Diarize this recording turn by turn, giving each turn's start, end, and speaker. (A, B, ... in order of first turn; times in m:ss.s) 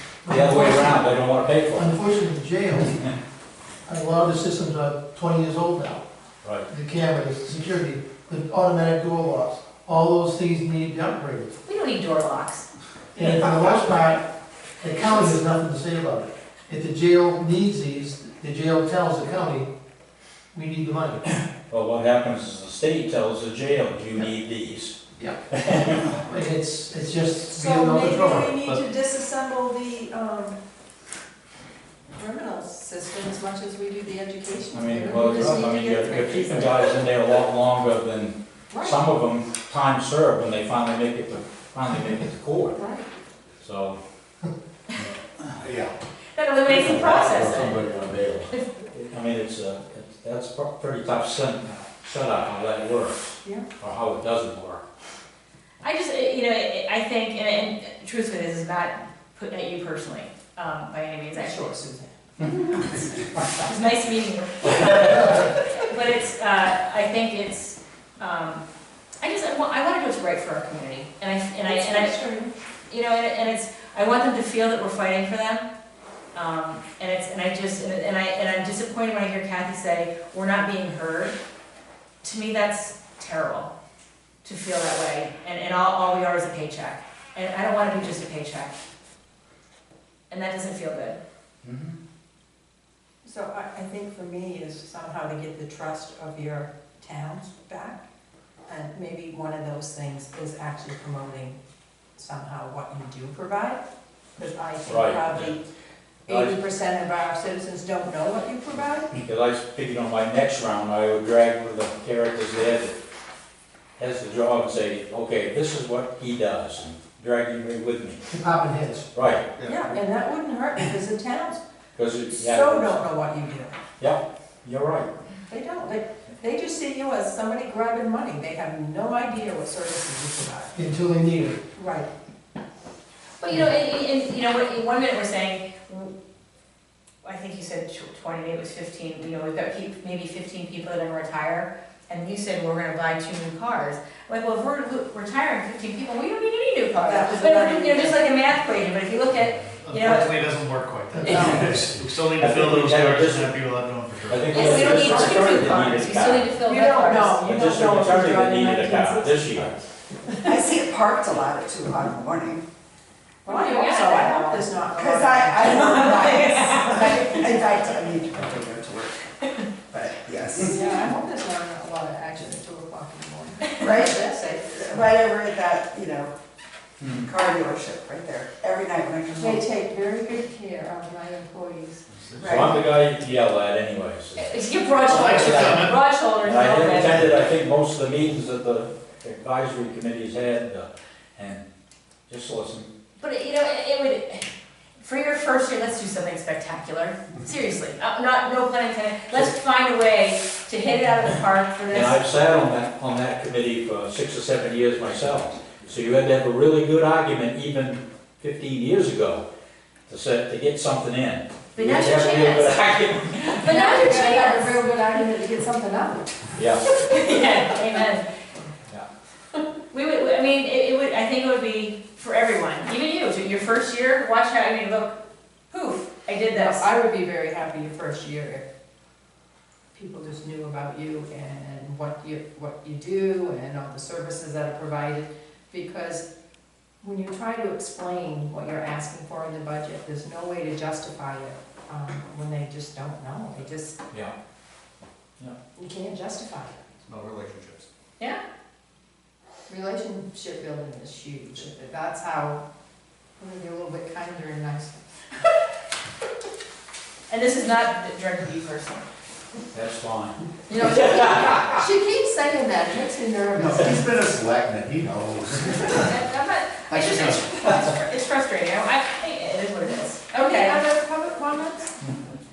0:00.2-0:01.1 A
0:00.3-0:01.9 B
0:01.7-0:03.1 A
0:03.8-0:06.0 A
0:06.7-0:11.5 A
0:11.6-0:12.7 C
0:13.1-0:14.2 A
0:14.8-0:19.7 A
0:20.5-0:21.2 A
0:21.3-0:25.0 B
0:25.5-0:26.0 B
0:25.9-0:28.7 A
0:27.5-0:30.6 D
0:32.1-0:36.9 D
0:34.7-0:42.8 B
0:38.7-0:39.0 D
0:42.7-0:43.0 D
0:43.6-0:44.0 B
0:45.6-0:45.9 E
0:46.3-0:47.9 C
0:46.6-0:54.8 B
0:55.8-1:01.7 C
1:01.3-1:03.0 D
1:02.8-1:08.6 C
1:09.2-1:12.2 C
1:11.6-1:12.5 D
1:12.9-1:15.7 C
1:16.3-1:21.4 C
1:22.2-1:23.7 C
1:24.4-1:28.7 C
1:30.3-1:31.2 C
1:31.6-1:32.0 B
1:33.2-1:38.0 D
1:38.7-1:41.6 D
1:42.2-1:43.8 D
1:44.4-1:45.6 D
1:44.9-1:45.5 B
1:46.3-1:46.5 B
1:46.3-1:49.1 D
1:49.1-1:53.0 B
1:54.0-1:58.2 B
1:58.3-1:59.1 A
1:59.1-1:59.5 B
1:59.6-2:01.6 D
2:01.9-2:03.0 B
2:02.3-2:03.7 D
2:04.0-2:05.1 B
2:05.5-2:10.7 D
2:10.7-2:11.6 A
2:11.8-2:12.1 D
2:13.4-2:16.1 C
2:17.2-2:30.4 C
2:27.0-2:28.2 D
2:29.7-2:35.3 F
2:31.2-2:31.5 A
2:31.2-2:31.6 C
2:31.3-2:31.8 B
2:31.3-2:31.6 D
2:32.4-2:33.6 B
2:34.3-2:36.5 B
2:34.5-2:37.4 C
2:36.6-2:40.5 D
2:37.4-2:39.7 B
2:40.4-2:42.6 G
2:43.4-2:47.5 D
2:43.4-2:44.6 C
2:44.3-2:49.3 G
2:45.6-2:47.8 C
2:49.9-2:50.8 G
2:50.5-2:55.1 D
2:53.8-2:56.3 G
2:57.0-2:57.3 B
2:57.2-2:59.6 G
2:59.4-3:02.0 D
3:02.4-3:02.8 G
3:02.4-3:04.5 B
3:04.4-3:07.2 C
3:05.1-3:05.9 F
3:05.2-3:11.6 B
3:12.3-3:12.9 B
3:13.2-3:14.5 C
3:15.0-3:22.2 C
3:21.9-3:29.4 B
3:30.1-3:33.7 B
3:31.7-3:32.8 C
3:33.4-3:34.8 C
3:33.6-3:36.4 D
3:36.6-3:36.8 B
3:37.0-3:38.2 C
3:39.9-3:45.2 C
3:45.7-3:46.9 C
3:46.5-3:48.6 D
3:49.9-3:56.2 D
3:57.0-4:04.0 D
4:05.8-4:06.8 D
4:07.1-4:07.8 F
4:09.7-4:12.6 D
4:13.4-4:15.0 D
4:17.3-4:19.0 C
4:19.7-4:21.8 B
4:20.7-4:24.1 D
4:23.6-4:25.9 E
4:23.8-4:24.0 G
4:25.9-4:30.8 C
4:26.9-4:27.4 G
4:29.9-4:31.9 D